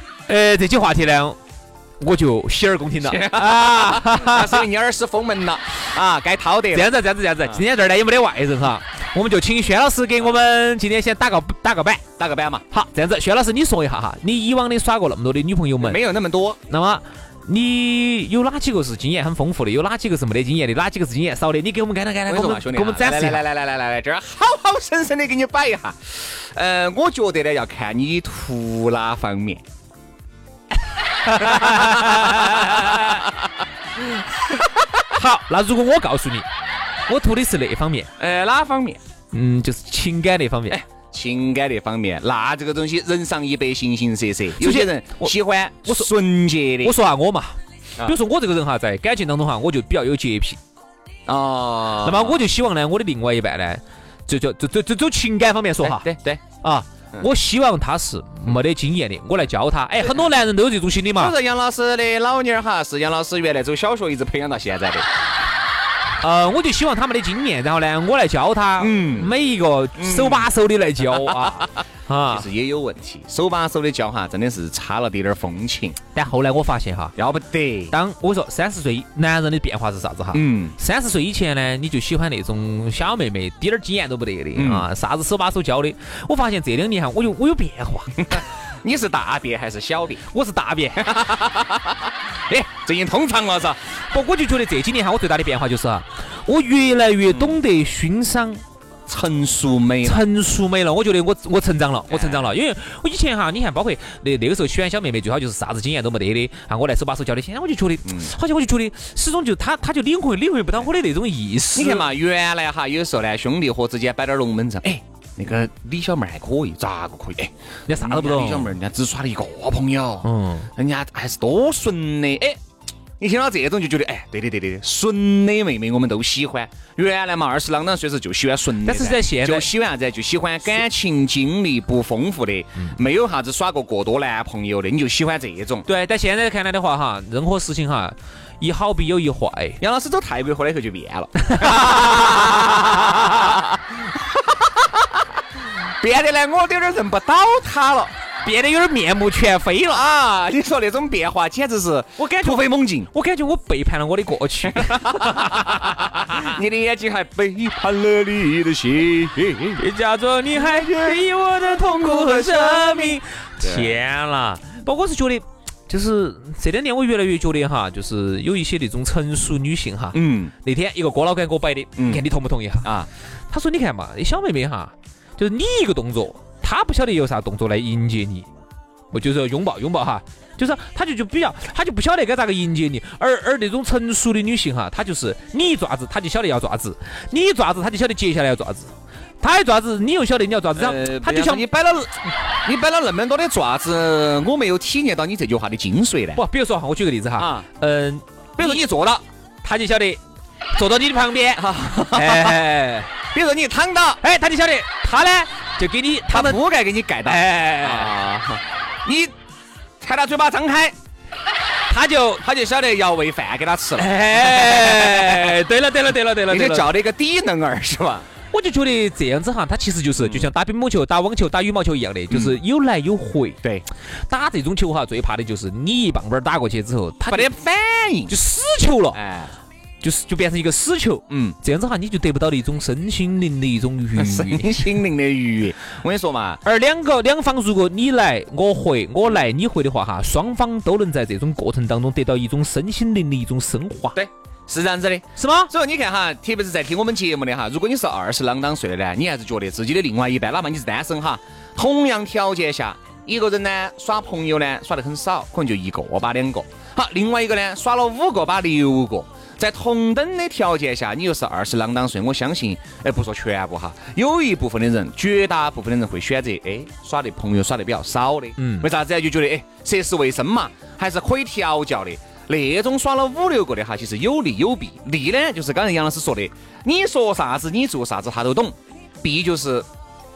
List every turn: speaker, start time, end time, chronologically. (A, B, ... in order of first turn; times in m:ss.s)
0:00.3-0:01.4 A
0:02.0-0:04.6 A
0:03.0-0:07.6 B
0:06.7-0:12.0 A
0:12.2-0:12.6 B
0:12.7-0:16.0 A
0:15.8-0:16.6 B
0:16.7-0:23.4 A
0:22.3-0:29.6 B
0:31.3-0:33.2 A
0:31.4-0:33.4 B
0:34.5-0:34.9 B
0:35.1-0:36.4 A
0:37.1-0:38.1 A
0:38.2-0:39.0 B
0:39.3-0:40.8 A
0:40.7-0:46.9 B
0:44.6-0:46.1 A
0:46.8-0:50.6 A
0:51.3-0:52.4 B
0:52.0-0:56.1 A
0:55.8-0:56.4 B
0:56.6-1:01.3 A
1:01.2-1:05.1 B
1:06.2-1:12.4 A
1:08.8-1:09.3 B
1:10.0-1:10.4 B
1:11.1-1:11.7 B
1:12.3-1:16.0 B
1:16.1-1:17.2 A
1:17.2-1:17.9 B
1:17.9-1:28.2 A
1:20.3-1:20.8 B
1:24.6-1:24.8 B
1:28.2-1:30.2 B
1:30.3-1:31.1 A
1:31.0-1:33.8 B
1:34.1-1:38.6 A
1:37.3-1:37.6 B
1:39.1-1:40.2 B
1:40.0-1:52.1 A
1:42.1-1:42.5 B
1:48.0-1:48.3 B
1:51.7-2:02.6 B
1:57.9-1:58.7 A
2:00.2-2:00.7 A
2:03.2-2:15.9 B
2:08.8-2:09.7 A
2:15.9-2:19.8 A
2:19.8-2:25.2 B
2:21.5-2:22.2 A
2:26.0-2:28.1 B
2:28.4-2:30.0 A
2:29.9-2:33.1 B
2:32.2-2:36.5 A
2:34.7-2:39.8 B
2:39.8-2:52.9 A
2:40.5-2:43.9 B
2:50.1-2:50.5 B
2:52.0-2:52.2 B
2:52.8-2:53.1 B
2:53.5-2:58.5 A
2:59.1-3:11.6 A
3:10.8-3:16.4 B
3:16.4-3:18.8 A
3:17.4-3:17.6 B
3:18.6-3:19.2 B
3:19.6-3:20.2 A
3:20.7-3:23.1 A
3:21.6-3:22.6 B
3:23.3-3:24.2 B
3:24.2-3:26.6 A
3:26.3-3:29.3 B
3:27.2-3:28.1 A
3:30.0-3:31.0 B
3:31.9-3:32.4 A
3:32.4-3:35.6 B
3:34.0-3:36.9 A
3:36.5-3:38.2 B
3:38.5-3:43.6 A
3:40.2-3:40.5 B
3:42.3-3:42.6 B
3:44.3-3:47.5 A
3:47.3-3:48.3 B
3:48.3-3:49.2 A
3:49.1-3:49.5 B
3:50.0-3:54.8 A
3:51.3-3:51.6 B
3:54.2-3:56.6 B
3:56.6-4:04.2 A
4:04.1-4:39.9 B
4:05.4-4:05.7 A
4:28.6-4:28.9 A